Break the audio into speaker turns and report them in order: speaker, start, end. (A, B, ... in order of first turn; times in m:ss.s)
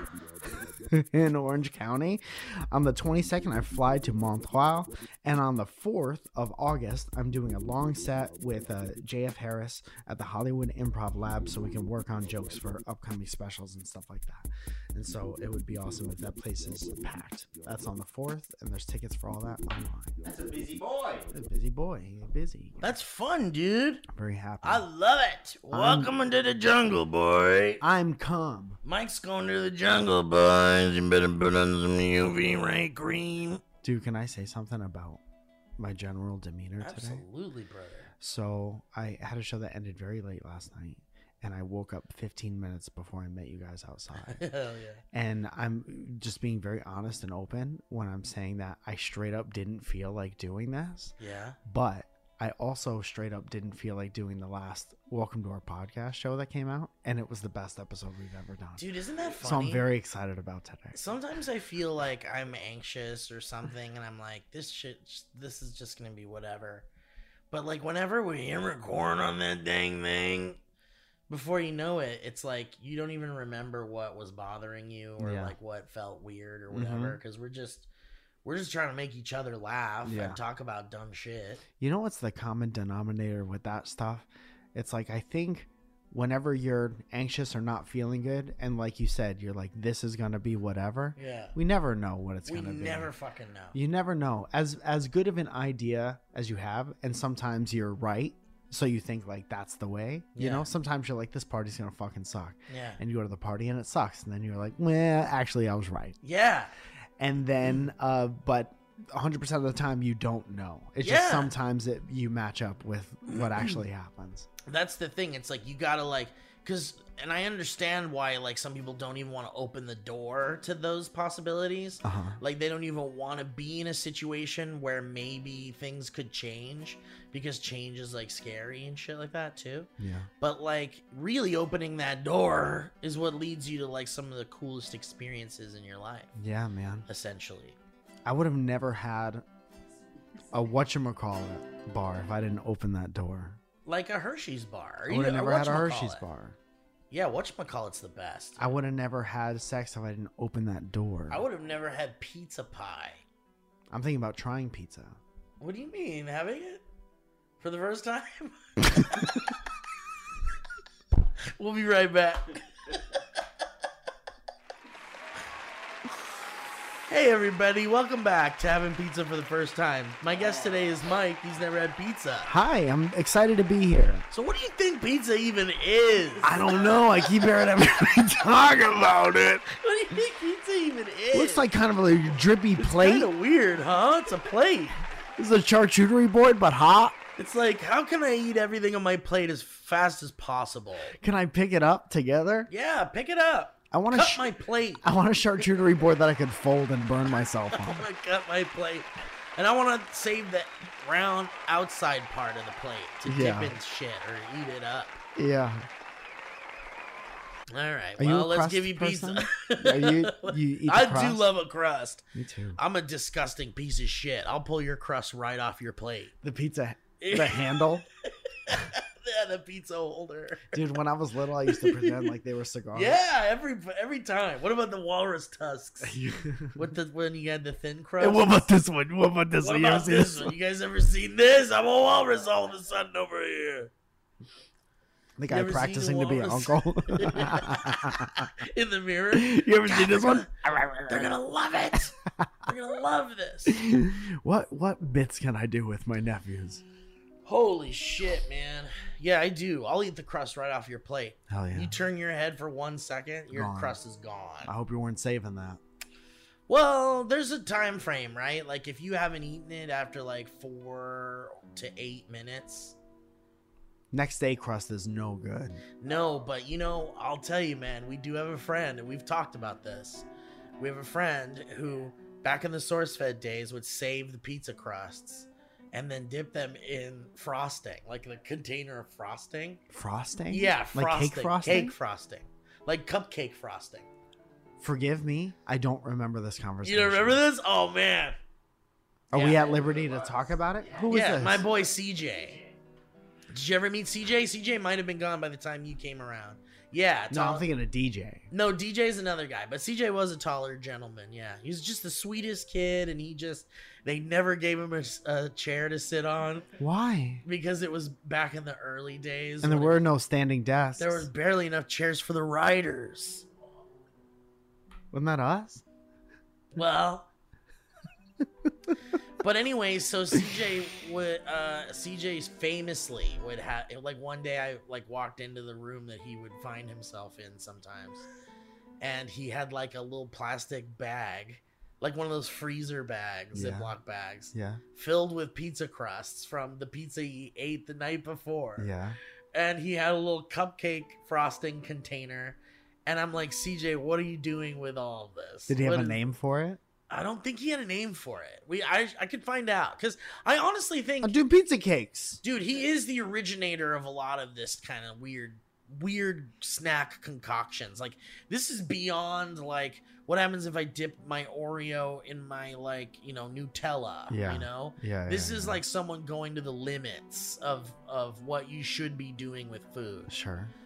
0:00.6-0:20.2 A
0:20.2-0:21.3 B
0:21.3-0:22.9 A
0:22.8-0:24.0 C
0:24.1-0:24.8 A
0:24.6-0:27.8 C
0:25.7-0:26.1 A
0:27.8-0:28.8 A
0:28.8-0:33.6 C
0:33.8-0:35.2 A
0:35.8-0:37.2 A
0:36.8-0:38.1 C
0:38.2-0:44.4 A
0:44.3-0:45.0 C
0:45.1-0:58.8 A
0:51.2-0:51.6 C
0:58.8-0:59.9 C
0:59.4-1:01.0 A
1:00.9-1:06.9 C
1:07.5-1:10.6 C
1:11.3-1:17.9 C
1:15.2-1:15.6 A
1:16.7-1:17.2 A
1:18.4-1:21.6 C
1:20.0-1:20.4 A
1:21.8-1:33.1 A
1:31.2-1:31.5 C
1:32.5-1:33.8 C
1:33.7-1:46.2 A
1:40.3-1:40.7 C
1:42.7-1:43.0 C
1:46.2-1:46.7 C
1:47.2-1:54.5 A
1:51.0-1:51.5 C
1:53.2-1:53.8 C
1:54.7-2:09.9 C
2:02.0-2:02.4 A
2:10.0-2:10.3 A
2:10.4-2:16.3 C
2:16.4-2:17.0 A
2:17.1-2:17.8 C
2:18.2-2:19.4 A
2:20.5-2:23.6 A
2:23.8-2:26.2 C
2:25.1-2:26.6 A
2:27.1-2:28.6 C
2:28.6-2:31.4 A
2:31.3-2:33.2 C
2:33.9-2:35.2 A
2:35.6-2:36.8 C
2:37.6-2:39.2 C
2:41.6-2:43.0 C
2:47.1-2:52.5 C
2:52.4-2:54.2 A
2:54.3-2:56.6 C
2:56.4-2:59.7 A
2:59.7-3:01.7 C
3:01.3-3:03.3 A
3:02.8-3:05.0 C
3:05.4-3:07.2 A
3:07.4-3:11.2 C
3:11.2-3:12.7 A
3:12.7-3:15.0 C
3:13.9-3:14.4 A
3:15.0-3:18.1 A
3:17.4-3:25.2 C
3:23.2-3:23.8 A
3:25.4-3:25.9 A
3:27.7-3:32.2 C
3:28.2-3:31.4 A
3:32.3-3:32.8 A
3:32.8-3:36.3 C
3:36.4-3:38.0 A
3:37.2-3:37.8 C
3:38.5-3:40.8 C
3:40.7-3:43.2 A
3:41.6-3:42.3 C
3:42.9-3:46.2 C
3:46.0-3:46.9 A
3:46.7-3:48.6 C
3:48.2-3:50.5 A
3:49.6-3:53.9 C
3:55.4-3:58.5 A
3:55.5-4:00.5 C
3:59.3-4:01.3 A
4:01.1-4:03.8 C
4:03.7-4:06.8 A
4:07.4-4:14.7 C
4:11.5-4:12.0 A
4:13.5-4:14.0 A
4:14.6-4:15.8 A
4:16.7-4:23.0 C
4:24.1-4:25.8 A
4:26.0-4:30.2 C
4:30.8-4:39.8 C
4:39.9-4:41.9 A
4:40.5-4:44.1 C
4:44.8-4:47.4 A
4:46.8-4:48.4 C
4:49.3-4:51.7 A
4:49.3-4:49.6 C
4:49.4-4:52.8 B
4:51.1-4:52.6 C
4:53.5-4:57.7 C
4:57.3-4:58.5 A
4:58.5-5:06.7 C
5:06.8-5:07.4 A
5:07.4-5:10.0 C
5:09.6-5:11.3 A
5:11.0-5:13.4 C
5:15.1-5:15.8 A
5:16.7-5:17.3 C
5:19.4-5:28.2 C
5:29.0-5:38.9 C
5:33.5-5:33.9 A
5:34.5-5:34.8 A
5:38.8-5:39.2 A
5:39.5-5:46.2 C
5:45.7-5:46.8 A
5:47.1-5:51.4 C
5:51.2-5:52.4 A
5:52.4-6:10.3 C
6:04.3-6:05.8 A
6:10.3-6:10.7 A